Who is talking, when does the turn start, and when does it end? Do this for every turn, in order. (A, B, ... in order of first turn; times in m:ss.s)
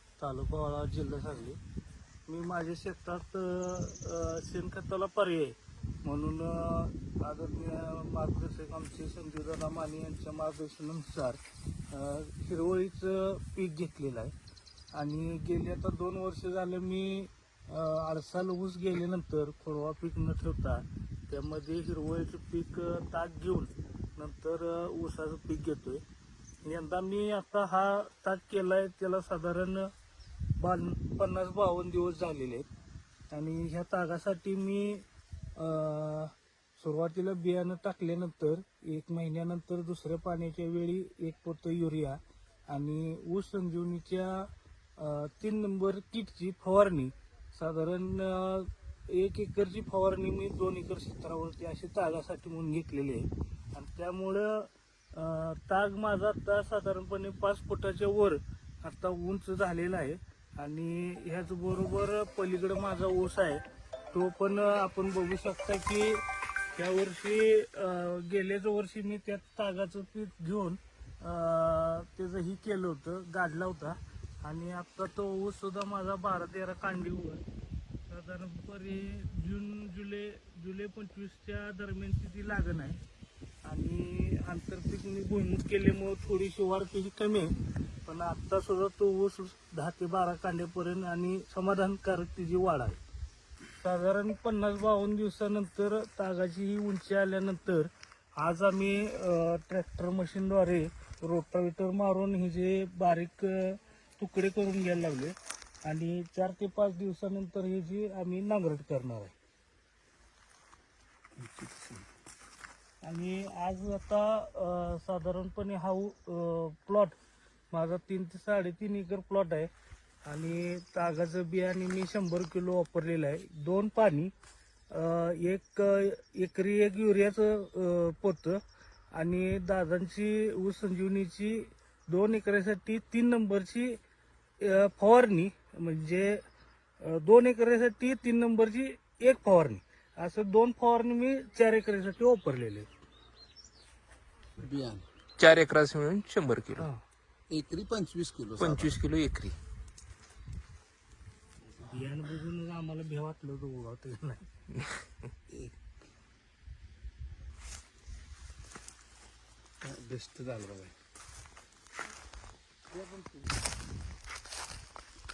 0:00.2-0:01.6 A
0:02.3-0:14.3 A
0:14.9-0:26.0 A
0:26.6-0:29.9 A
0:30.6-0:32.7 A
0:33.3-0:35.0 A
0:35.6-1:06.2 A
1:06.7-1:17.4 A
1:18.1-1:23.0 A
1:23.6-1:27.5 A
1:28.0-1:33.0 A
1:33.8-1:49.3 A
1:51.4-1:52.0 B
1:53.0-1:57.1 A
1:57.7-1:59.7 A
2:00.2-2:04.3 A
2:04.9-2:08.6 A
2:09.1-2:14.0 A
2:14.6-2:16.4 A
2:17.0-2:22.9 A
2:24.6-2:25.1 B
2:25.4-2:26.9 C
2:26.8-2:27.0 A
2:27.5-2:29.0 B
2:28.6-2:29.6 C
2:31.8-2:34.5 A
2:35.5-2:35.8 B
2:39.8-2:40.9 B
2:42.9-2:43.5 A